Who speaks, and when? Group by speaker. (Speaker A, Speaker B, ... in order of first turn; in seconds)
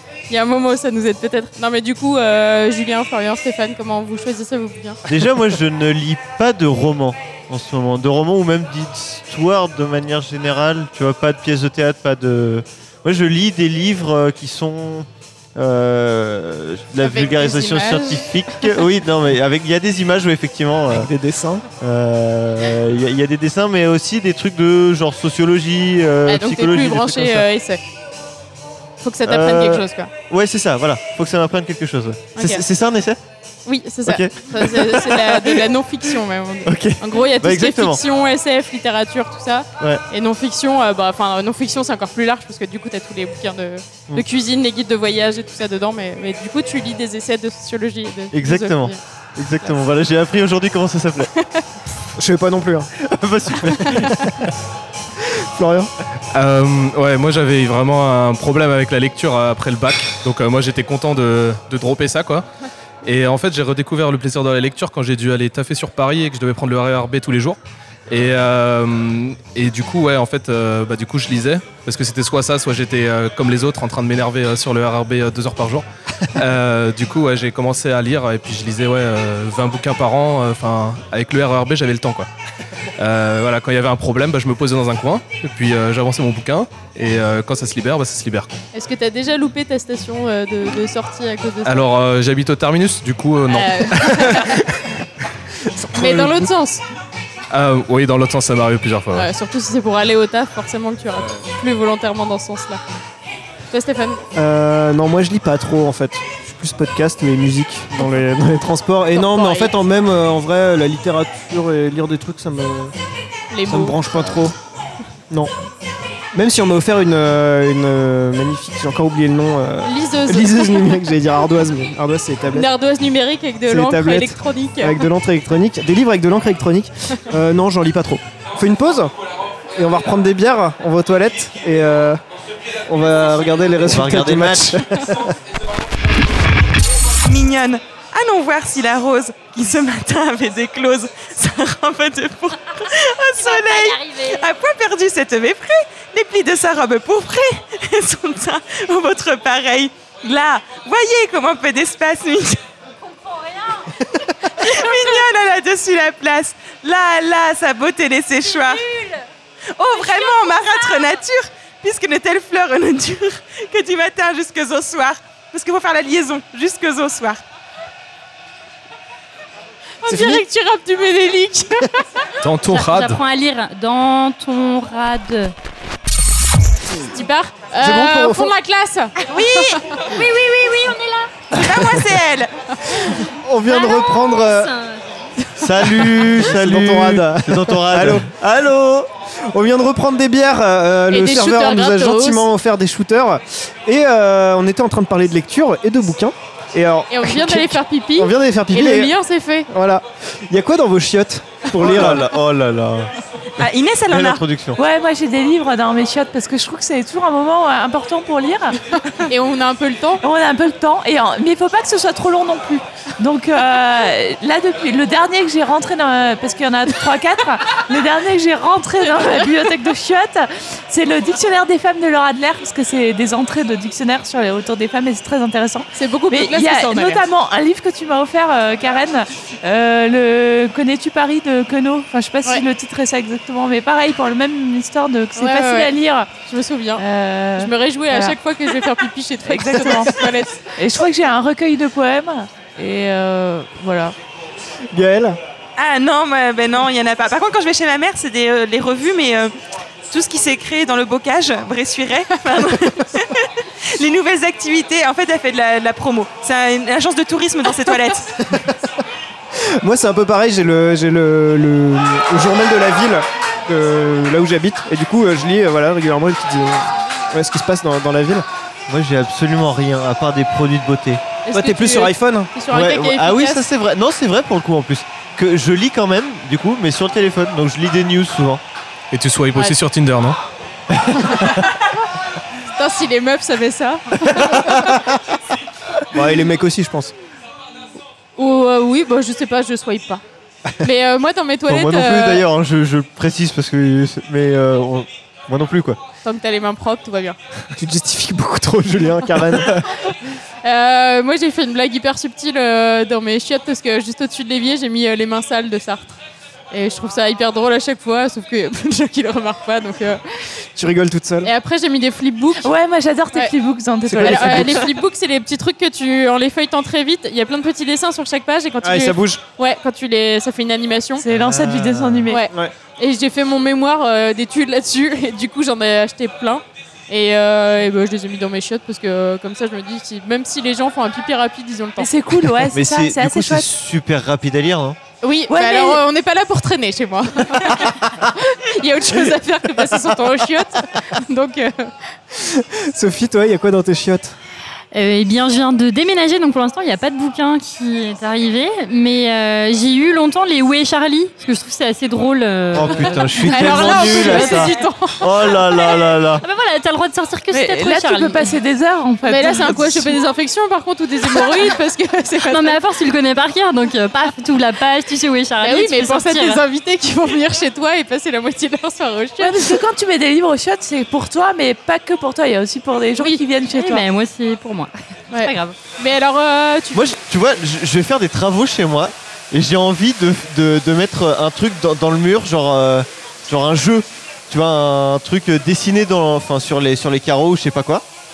Speaker A: 0.3-5.0, 17.0-18.8, 26.2-27.8, 29.0-30.1, 32.4-32.6, 33.6-49.0, 53.8-54.2, 88.7-91.9, 93.5-94.6, 96.0-96.8, 99.1-102.8, 103.7-104.2, 109.1-109.7, 113.5-114.4, 119.8-121.2, 122.5-125.1, 170.0-172.2, 177.1-180.0, 191.1-192.5, 197.1-199.7, 209.2-210.2, 225.9-227.2, 235.4-237.0, 237.6-240.6, 271.4-273.6, 281.1-281.9, 282.7-284.9, 288.4-290.2, 290.8-292.4, 296.2-297.4, 300.6-306.1, 306.7-310.6, 311.4-312.7, 314.1-321.2, 322.3-332.1, 335.2-341.9, 353.4-355.8, 359.3-362.8, 365.6-369.8, 375.3-377.1
Speaker B: 5.1-21.1, 21.8-27.5, 29.2-33.2, 34.1-35.6, 36.7-38.0, 48.3-51.3, 53.0-54.5, 133.8-135.1, 185.6-189.1, 201.8-204.8, 268.9-271.2, 272.7-278.6, 280.9-281.7, 291.7-296.0, 321.3-322.3, 332.7-335.0, 352.7-356.4, 376.9-388.0
Speaker C: 20.9-21.6, 52.2-52.9, 55.2-55.9, 95.6-96.5, 104.3-112.9, 113.7-114.5, 116.3-122.7, 123.7-129.1, 129.8-132.2, 132.9-135.3, 170.1-170.4, 177.8-178.5, 183.3-184.7, 186.0-188.3, 189.3-199.2, 199.7-202.3, 244.9-245.4, 259.6-268.4, 271.5-272.5, 286.1-287.1, 297.8-299.8, 310.8-311.5, 314.1-314.9, 318.8-319.4, 342.4-344.3
Speaker D: 56.3-62.5, 63.0-67.6, 68.1-82.3, 83.0-88.5, 91.6-94.5, 97.5-99.3, 172.4-173.2, 279.1-280.4
Speaker E: 137.2-152.6, 154.5-158.9, 159.8-167.4, 179.3-180.3, 181.5-182.5, 203.6-204.4, 245.8-249.5, 250.1-258.4
Speaker F: 143.3-144.4, 153.0-155.2, 158.4-159.3, 159.9-161.1, 172.6-175.5, 180.1-181.5, 183.7-185.5, 344.9-354.8, 356.4-358.5, 362.5-366.6, 373.7-375.8
Speaker G: 204.8-208.9, 210.2-236.3, 237.0-238.9, 239.4-244.2, 312.6-315.0, 321.2-322.4, 332.0-333.7, 335.5-336.0, 357.5-360.2, 369.4-374.1